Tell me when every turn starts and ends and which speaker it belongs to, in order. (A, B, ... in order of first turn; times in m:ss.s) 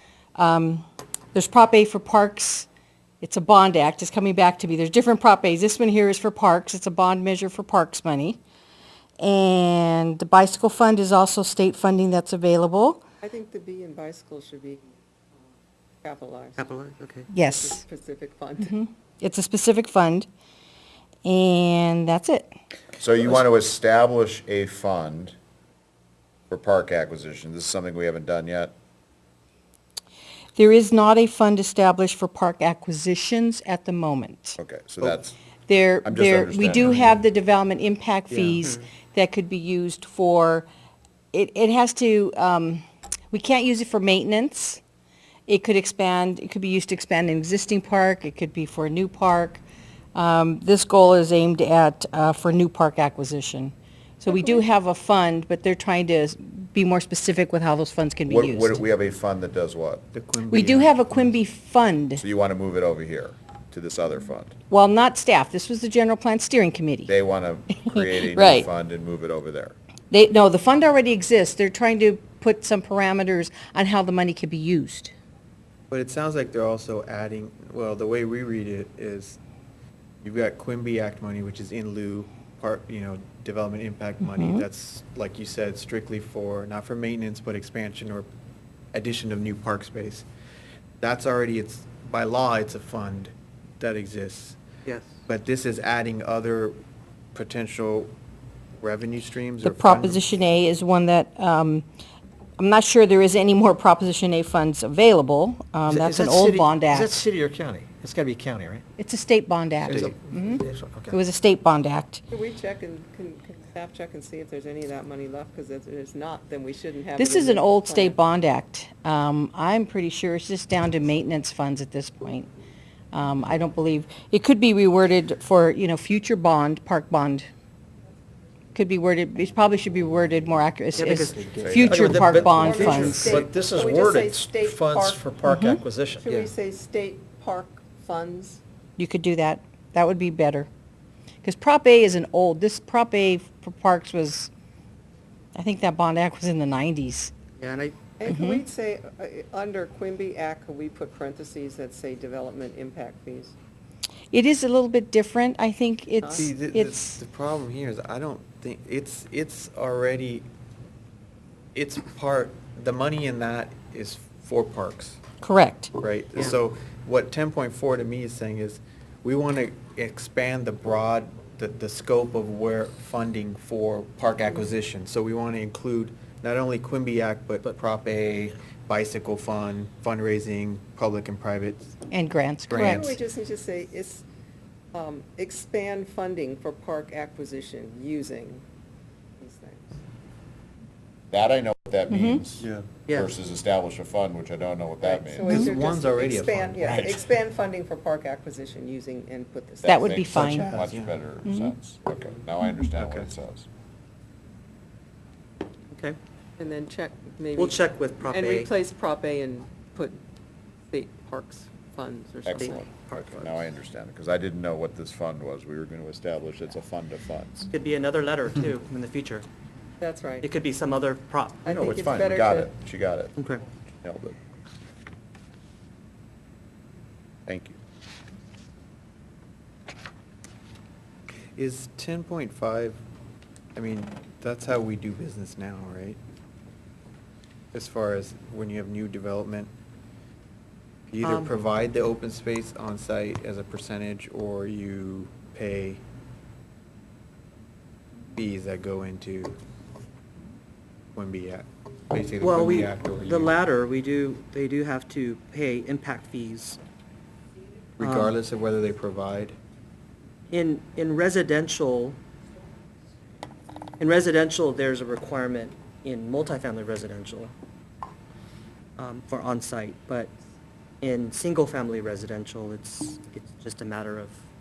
0:00.4-0:02.7 A
0:03.2-0:08.4 A
0:09.2-0:13.0 A
0:13.2-0:15.0 B
0:16.0-0:16.6 B
0:16.6-0:17.3 C
0:17.3-0:17.8 A
0:17.5-0:18.7 B
0:18.6-0:20.3 A
0:21.2-0:22.5 A
0:23.0-0:25.4 D
0:26.5-0:28.7 D
0:30.6-0:34.6 A
0:34.6-0:35.4 D
0:35.7-0:40.7 A
0:36.0-0:37.2 D
0:38.3-0:38.7 E
0:41.3-0:44.8 A
0:45.5-0:49.6 A
0:50.2-0:58.8 A
0:54.3-0:54.6 B
0:58.3-1:00.0 D
1:00.1-1:01.4 E
1:00.5-1:02.2 A
1:02.2-1:04.6 D
1:04.7-1:07.1 A
1:07.1-1:09.8 D
1:07.9-1:08.7 A
1:10.1-1:15.1 A
1:15.9-1:19.4 E
1:20.2-1:28.3 E
1:24.2-1:24.7 A
1:28.9-1:30.3 E
1:31.0-1:34.6 E
1:34.8-1:35.2 C
1:35.3-1:36.8 E
1:37.4-1:38.1 E
1:38.8-1:40.2 E
1:39.6-1:41.9 A
1:42.6-1:47.2 A
1:45.9-1:48.8 F
1:49.0-1:52.2 A
1:49.9-1:51.2 F
1:52.3-1:58.2 B
1:57.2-2:02.5 A
2:03.1-2:07.5 A
2:08.7-2:13.4 A
2:10.9-2:12.8 E
2:11.0-2:11.4 C
2:11.6-2:12.1 D
2:11.8-2:16.4 F
2:12.6-2:15.2 B
2:15.4-2:15.8 A
2:16.2-2:18.6 B
2:19.0-2:20.7 A
2:21.4-2:24.5 A
2:25.6-2:27.3 A
2:27.6-2:28.0 C
2:28.2-2:33.6 B
2:28.3-2:28.6 A
2:34.3-2:37.2 A
2:36.2-2:36.5 B
2:36.4-2:40.5 E
2:41.7-2:45.2 E
2:45.4-2:45.9 A
2:46.0-3:02.0 E
3:02.1-3:03.2 A
3:02.7-3:03.2 E
3:02.7-3:04.2 B
3:04.9-3:08.6 B
3:09.4-3:10.0 B
3:11.3-3:15.7 D
3:12.1-3:12.4 A
3:13.1-3:13.4 C
3:15.0-3:20.3 B
3:15.4-3:17.2 E
3:15.5-3:15.7 A
3:19.8-3:23.7 D
3:19.9-3:20.7 A
3:20.3-3:21.1 E
3:21.4-3:21.7 A
3:23.0-3:23.3 E
3:25.9-3:26.2 C
3:26.6-3:30.2 B
3:27.6-3:28.7 C
3:30.9-3:32.9 B
3:32.5-3:37.7 D
3:32.5-3:33.7 C
3:37.7-3:39.5 C
3:40.0-3:40.5 B
3:40.4-3:41.7 C
3:41.6-3:42.7 B
3:41.7-3:43.4 D
3:43.4-3:43.6 C
3:44.0-3:44.4 D
3:47.5-3:47.8 D
3:51.6-3:53.0 E
3:53.8-3:56.2 E
3:57.7-3:59.7 E
4:01.1-4:06.0 E
4:01.2-4:01.5 C
4:08.4-4:09.6 E
4:11.2-4:13.6 E
4:12.4-4:16.8 C
4:18.0-4:18.4 C
4:18.0-4:19.6 E
4:20.5-4:22.2 C
4:24.0-4:27.5 C
4:29.0-4:30.3 C
4:31.0-4:34.4 C